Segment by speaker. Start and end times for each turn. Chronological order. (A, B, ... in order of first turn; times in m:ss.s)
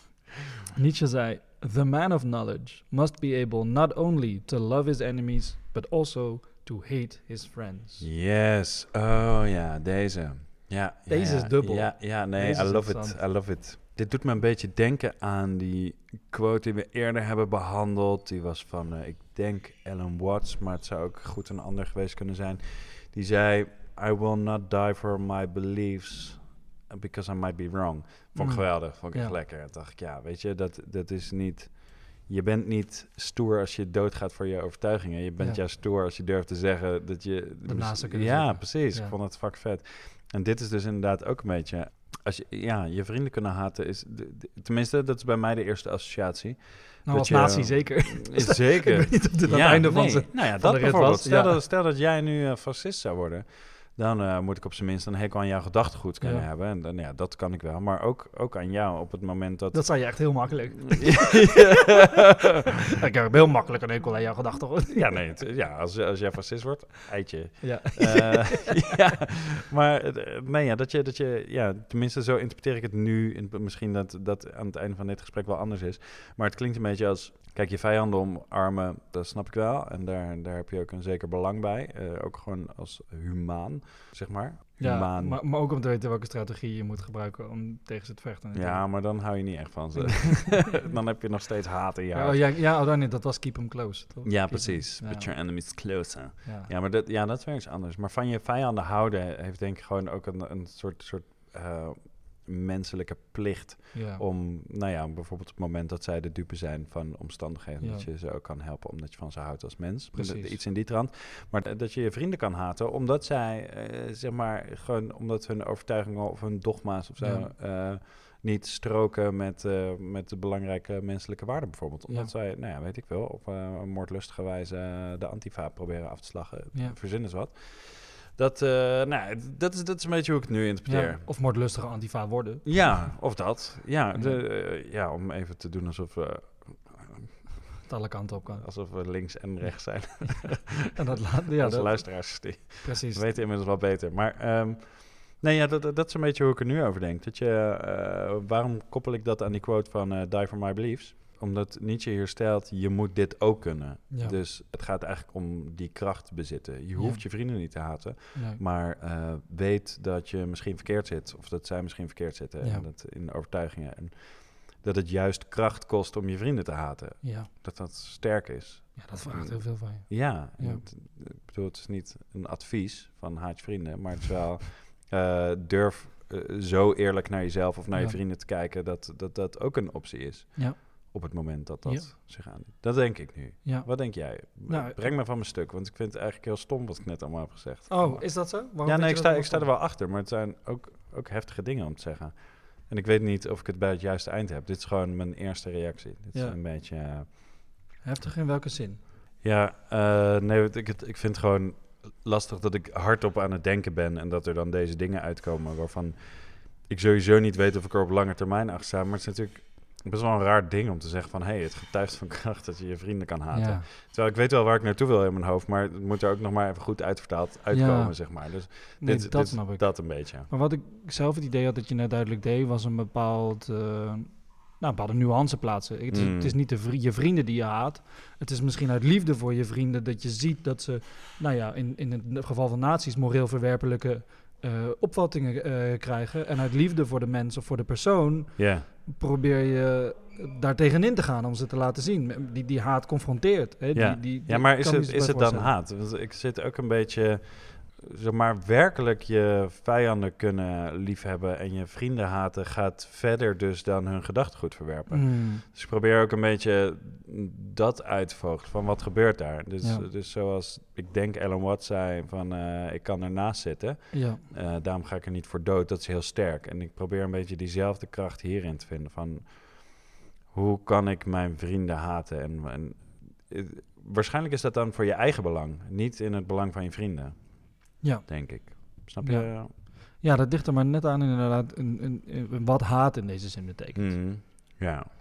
0:00.8-0:08.1 A
0:08.0-1:02.6 B
0:11.1-0:13.2 A
0:28.3-0:29.4 A
0:37.6-0:39.1 A
0:47.1-0:51.6 A
0:56.2-0:56.4 A
0:59.7-1:01.6 A
1:02.7-1:05.3 A
1:04.9-1:25.4 B
1:07.6-1:08.9 A
1:24.8-1:28.9 A
1:28.5-1:32.5 B
1:30.0-1:30.9 A
1:32.1-1:35.5 A
1:34.2-2:11.3 B
1:36.4-1:36.7 A
1:43.9-1:44.2 A
1:47.8-1:48.1 A
1:50.1-1:50.6 A
1:57.2-1:57.5 A
2:06.7-2:07.0 A
2:10.9-2:13.1 A
2:12.6-2:17.6 B
2:14.1-2:14.4 A
2:17.8-2:18.7 A
2:18.6-3:17.4 B
2:20.2-2:23.4 A
2:34.1-2:34.4 A
2:37.0-2:37.7 A
2:38.3-2:38.6 A
2:42.6-2:42.9 A
2:47.2-2:47.5 A
2:49.0-2:50.8 A
2:57.9-2:58.2 A
3:00.5-3:01.1 A
3:01.8-3:02.1 A
3:03.6-3:05.1 A
3:07.9-3:09.7 A
3:18.0-3:19.0 A
3:19.4-3:40.5 B
3:33.5-3:33.9 A
3:37.7-4:05.7 A
3:46.1-3:46.5 B
3:58.6-3:58.9 B
4:03.9-4:39.7 B
4:15.1-4:15.6 A
4:19.8-4:20.0 A
4:24.1-4:24.4 A
4:38.0-4:44.2 A
4:44.0-4:45.1 B